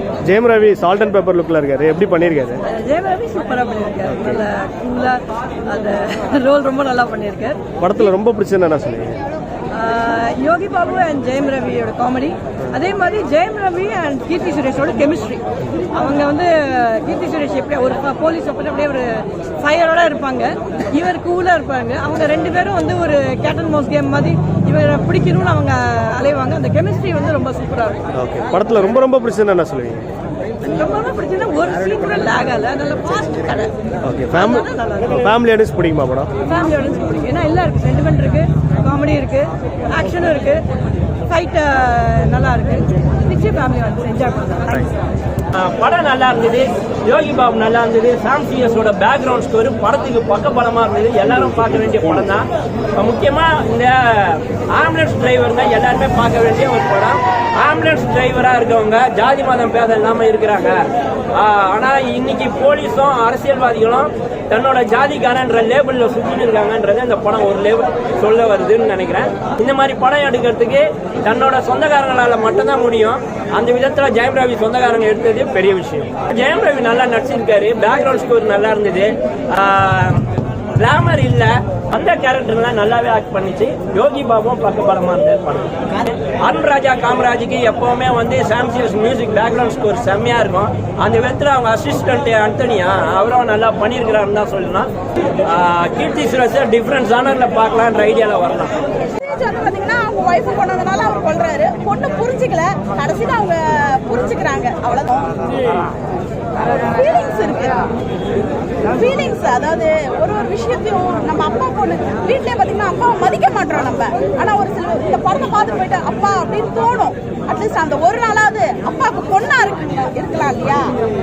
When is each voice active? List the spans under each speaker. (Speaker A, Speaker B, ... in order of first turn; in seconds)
Speaker A: 0.2-2.6, 4.1-4.4, 7.8-9.2, 28.1-30.0, 34.0-36.3
Speaker B: 2.7-7.6, 9.7-19.1, 19.6-28.0, 30.6-33.7, 34.3-35.3, 36.5-40.6, 41.3-44.9
Speaker C: 45.5-60.8, 61.4-80.2, 80.8-94.9, 95.5-98.7
Speaker D: 99.2-105.5, 106.6-107.8, 108.9-120.9